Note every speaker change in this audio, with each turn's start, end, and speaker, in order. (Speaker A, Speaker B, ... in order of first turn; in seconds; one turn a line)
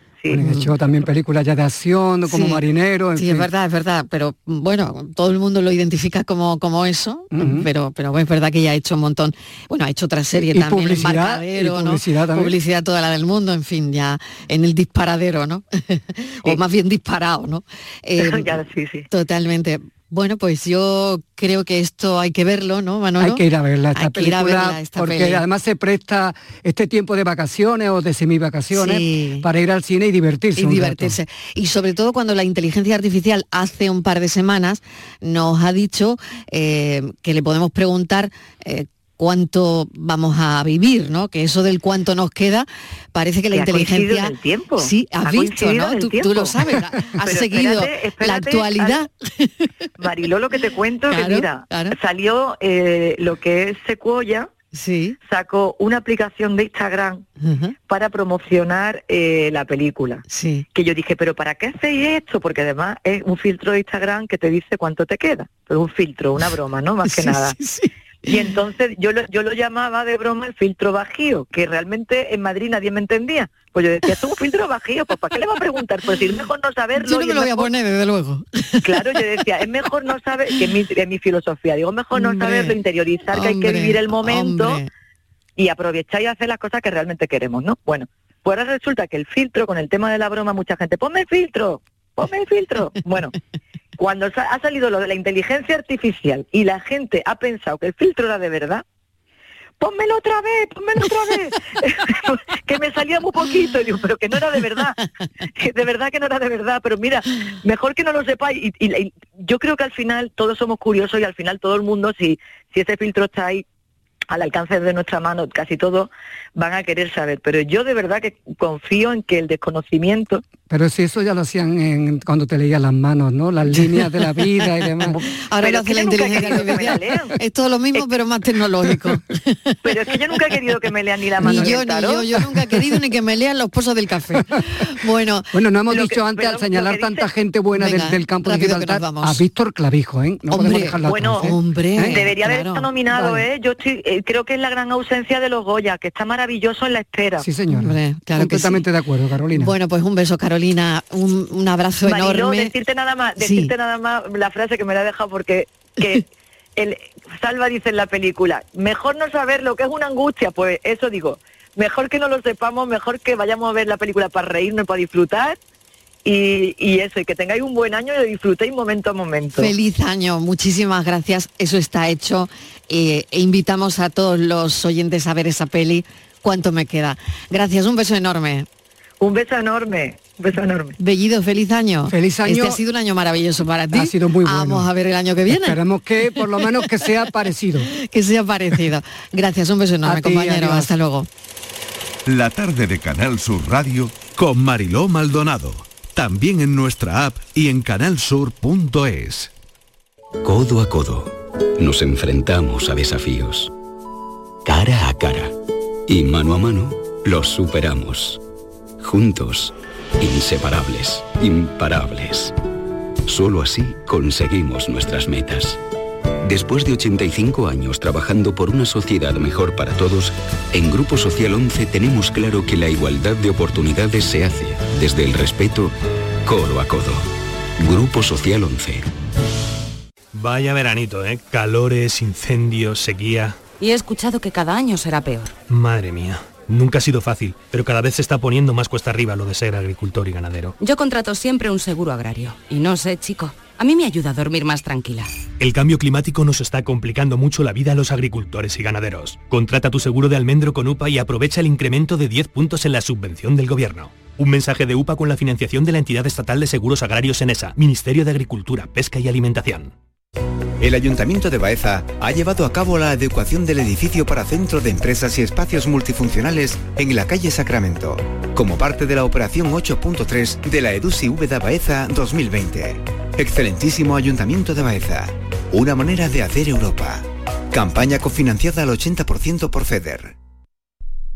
Speaker A: 0.3-3.5
Speaker B: 0.4-0.7
Speaker B: 2.3-2.6
Speaker B: 3.1-18.5
Speaker A: 7.3-7.7
Speaker A: 10.4-12.5
Speaker C: 18.2-19.1
Speaker B: 19.1-23.4
Speaker A: 23.2-31.2
Speaker B: 23.9-25.4
Speaker B: 28.7-29.5
Speaker B: 30.6-49.9
Speaker C: 43.5-46.5
Speaker C: 47.2-49.0
Speaker C: 50.0-54.5
Speaker B: 51.1-52.0
Speaker B: 54.7-55.2
Speaker C: 55.3-57.2
Speaker B: 57.4-57.8
Speaker C: 57.9-67.6
Speaker B: 60.3-60.7
Speaker B: 67.0-68.5
Speaker C: 68.3-77.7
Speaker B: 77.0-79.0
Speaker C: 78.8-84.8
Speaker B: 82.2-82.8
Speaker B: 83.3-84.9
Speaker C: 85.6-93.3
Speaker C: 94.0-98.8
Speaker C: 99.8-105.0
Speaker C: 105.6-113.6
Speaker C: 114.3-120.4
Speaker A: 120.7-125.2
Speaker B: 123.7-130.0
Speaker C: 125.2-127.3
Speaker C: 129.8-132.2
Speaker B: 131.4-135.5
Speaker A: 131.4-131.7
Speaker A: 134.3-134.6
Speaker A: 135.5-142.2
Speaker C: 135.9-137.3
Speaker B: 137.8-139.4
Speaker B: 140.5-142.9
Speaker C: 141.1-147.4
Speaker A: 143.1-143.4
Speaker A: 147.4-149.7
Speaker B: 147.7-148.8
Speaker B: 149.5-152.7
Speaker C: 152.1-156.3
Speaker B: 153.4-153.7
Speaker C: 156.8-165.6
Speaker C: 166.2-169.7
Speaker B: 169.5-178.7
Speaker C: 179.2-181.0
Speaker B: 181.0-185.8
Speaker A: 182.1-182.8
Speaker A: 183.9-184.9
Speaker A: 185.5-187.9
Speaker B: 186.6-187.1
Speaker B: 187.9-191.3
Speaker A: 190.0-190.9
Speaker D: 192.3-194.3
Speaker E: 194.3-199.5
Speaker F: 200.4-203.7
Speaker F: 204.7-205.5
Speaker F: 206.1-208.4
Speaker F: 209.0-212.6
Speaker F: 213.3-215.8
Speaker F: 216.4-225.9
Speaker F: 226.4-229.1
Speaker G: 230.3-233.6
Speaker H: 233.8-235.5
Speaker G: 235.7-240.8
Speaker H: 240.8-245.3
Speaker G: 245.6-259.9
Speaker I: 260.8-280.3